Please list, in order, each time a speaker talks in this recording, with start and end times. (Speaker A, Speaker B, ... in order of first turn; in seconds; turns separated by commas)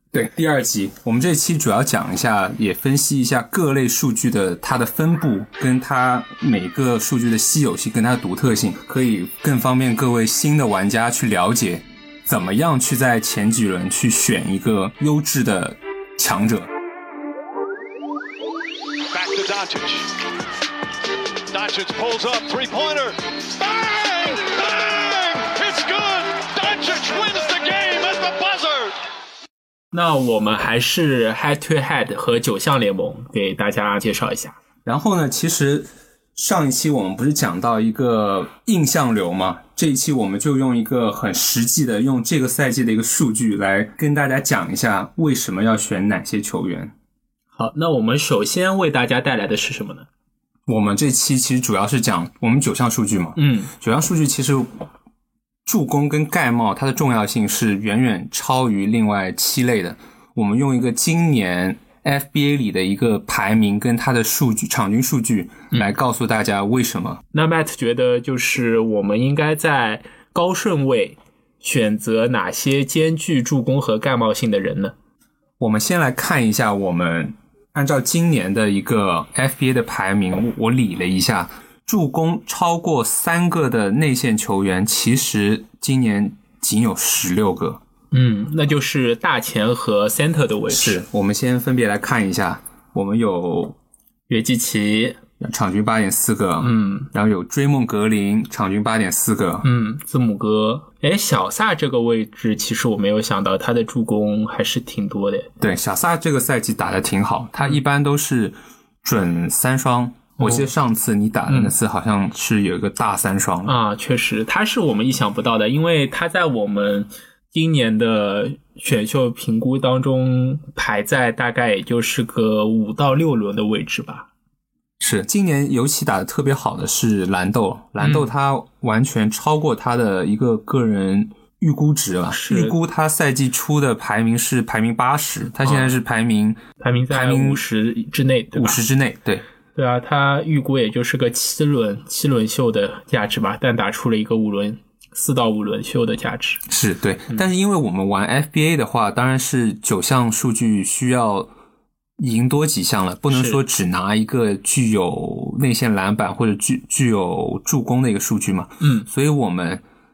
Speaker A: 0.1-16.7, Speaker B: 19.1-20.1, Speaker B: 21.5-29.0, Speaker C: 29.9-34.6, Speaker A: 34.8-46.9, Speaker C: 47.5-50.1, Speaker A: 50.7-54.7, Speaker C: 53.4-53.7, Speaker A: 55.6-67.2, Speaker C: 67.3-74.9, Speaker A: 75.6-87.8, Speaker C: 88.1-91.0, Speaker A: 90.7-93.8, Speaker C: 94.3-95.2, Speaker A: 95.4-99.7, Speaker C: 96.6-97.1, Speaker C: 99.6-105.5, Speaker A: 105.6-113.7, Speaker C: 110.4-110.7, Speaker C: 111.5-111.7, Speaker C: 113.6-124.3, Speaker A: 125.0-137.6, Speaker C: 128.0-128.3, Speaker C: 132.3-132.8, Speaker C: 135.6-135.9, Speaker C: 136.8-138.8, Speaker A: 138.5-139.4, Speaker C: 139.7-146.6, Speaker A: 146.7-151.5, Speaker A: 152.2-159.8, Speaker C: 153.3-153.6, Speaker C: 158.8-159.1